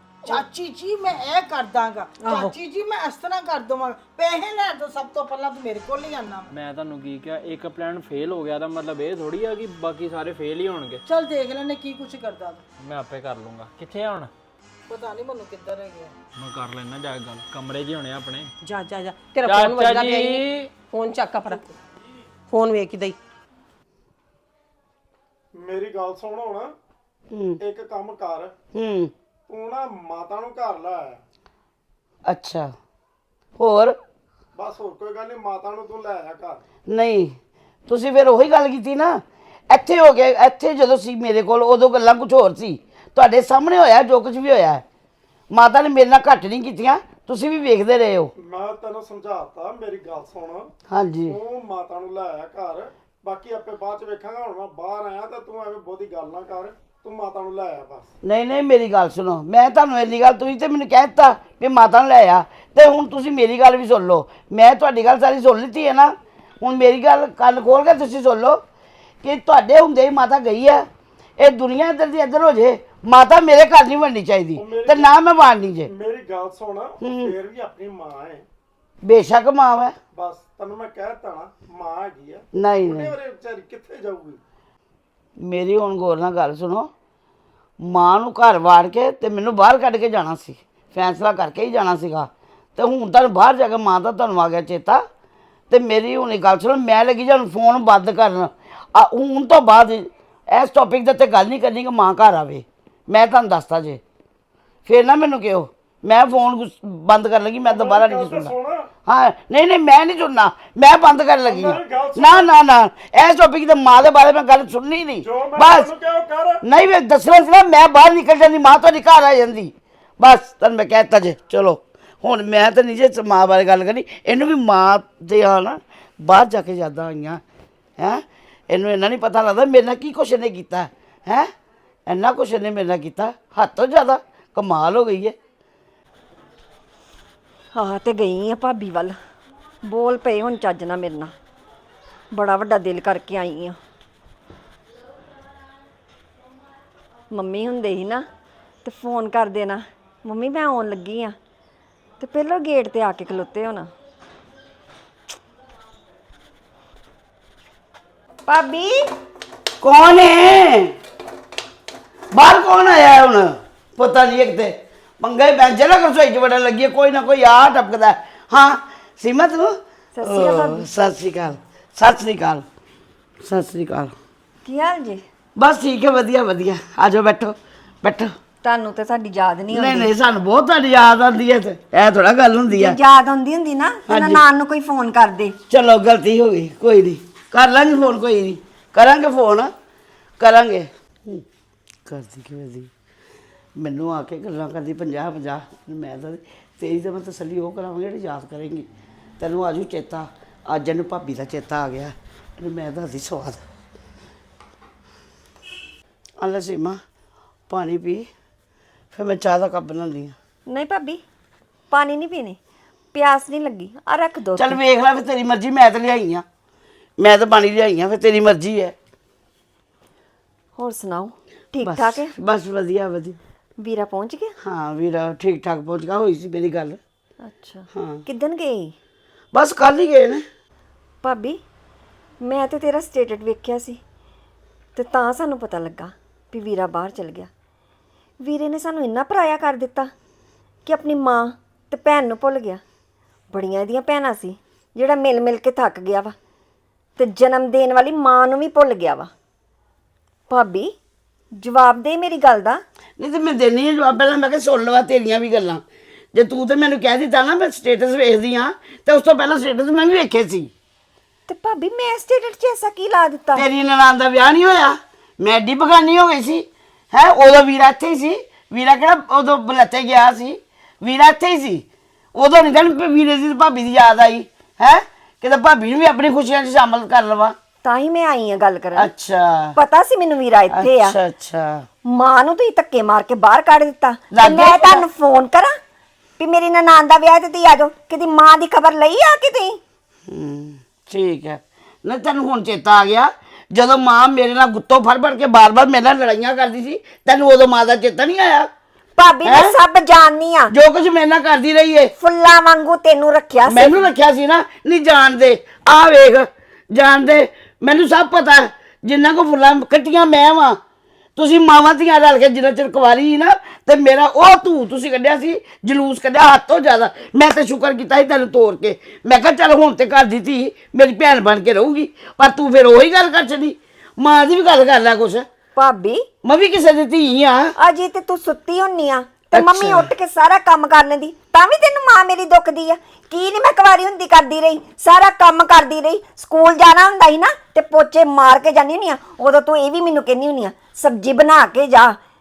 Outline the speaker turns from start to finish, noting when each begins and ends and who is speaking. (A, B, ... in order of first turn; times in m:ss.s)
0:00.2-0:06.5 A
0:02.2-0:02.5 B
0:06.5-0:11.0 C
0:11.1-0:12.6 A
0:12.8-0:14.3 C
0:14.9-0:16.1 A
0:16.4-0:18.5 C
0:18.6-0:21.7 B
0:19.5-0:20.7 C
0:22.5-0:23.2 B
0:25.6-0:26.7 D
0:27.6-0:28.5 D
0:28.8-0:29.1 E
0:29.5-0:31.2 D
0:32.3-0:32.7 E
0:33.6-0:34.0 E
0:34.6-0:36.6 D
0:36.9-0:37.4 E
0:37.9-0:44.8 E
0:45.5-0:48.3 E
0:48.4-0:50.7 D
0:50.9-0:51.4 E
0:51.3-0:58.1 D
0:58.2-1:08.6 E
1:09.2-1:10.9 E
1:11.4-1:15.9 E
1:14.6-1:15.1 D
1:15.9-1:18.5 D
1:17.0-1:17.4 E
1:19.0-1:19.9 E
1:20.2-1:24.4 D
1:22.6-1:23.2 E
1:25.4-1:26.9 E
1:27.8-1:35.0 E
1:35.7-1:44.0 E
1:44.9-1:55.9 E
1:47.6-1:48.9 D
1:51.4-1:52.5 D
1:55.2-1:56.6 D
1:56.6-2:07.4 E
2:08.0-2:11.5 E
2:12.1-2:15.4 E
2:17.7-2:19.2 F
2:19.8-2:21.3 F
2:22.3-2:23.8 F
2:27.3-2:28.2 F
2:28.8-2:31.4 F
2:32.2-2:33.9 F
2:38.5-2:39.1 F
2:39.8-2:40.9 E
2:42.3-2:52.6 E
2:50.2-2:50.9 F
2:53.4-2:54.1 E
2:54.6-2:55.2 F
2:55.6-2:58.3 E
2:58.6-3:00.1 F
2:59.7-3:03.0 E
3:02.7-3:05.5 F
3:04.1-3:04.4 E
3:05.7-3:09.7 E
3:10.4-3:11.4 E
3:12.1-3:12.9 E
3:13.8-3:18.9 E
3:19.4-3:23.6 E
3:26.4-3:27.0 E
3:27.7-3:28.3 E
3:29.1-3:30.4 E
3:30.7-3:31.2 F
3:31.9-3:32.6 F
3:33.1-3:34.8 F
3:34.6-3:36.4 E
3:37.2-3:39.0 E
3:40.8-3:42.3 F
3:41.8-3:43.4 E
3:43.8-3:44.6 F
3:44.6-3:47.0 E
3:47.4-3:48.9 F
3:48.0-3:48.2 E
3:49.5-3:50.4 E
3:51.2-3:51.6 F
3:52.4-3:54.0 F
3:55.0-3:57.5 F
3:58.4-4:00.1 F
4:00.9-4:02.8 F
4:03.5-4:06.3 F
4:07.2-4:09.3 F
4:10.5-4:10.9 F
4:11.5-4:12.8 F
4:13.2-4:20.7 E
4:21.5-4:23.7 F
4:23.6-4:31.8 E
4:32.4-4:37.6 E
4:37.8-4:39.1 F
4:39.0-4:39.8 E
4:39.8-4:41.1 F
4:40.7-4:41.8 E
4:42.0-4:45.7 F
4:44.3-4:45.0 E
4:46.4-4:49.8 F
4:50.3-4:58.7 E
4:59.2-5:00.7 F
4:59.4-4:59.7 E
5:00.7-5:02.1 E
5:02.2-5:04.0 F
5:03.7-5:10.8 E
5:11.4-5:25.5 E
5:25.8-5:26.2 F
5:26.4-5:27.7 E
5:27.8-5:42.2 F
5:29.5-5:30.1 E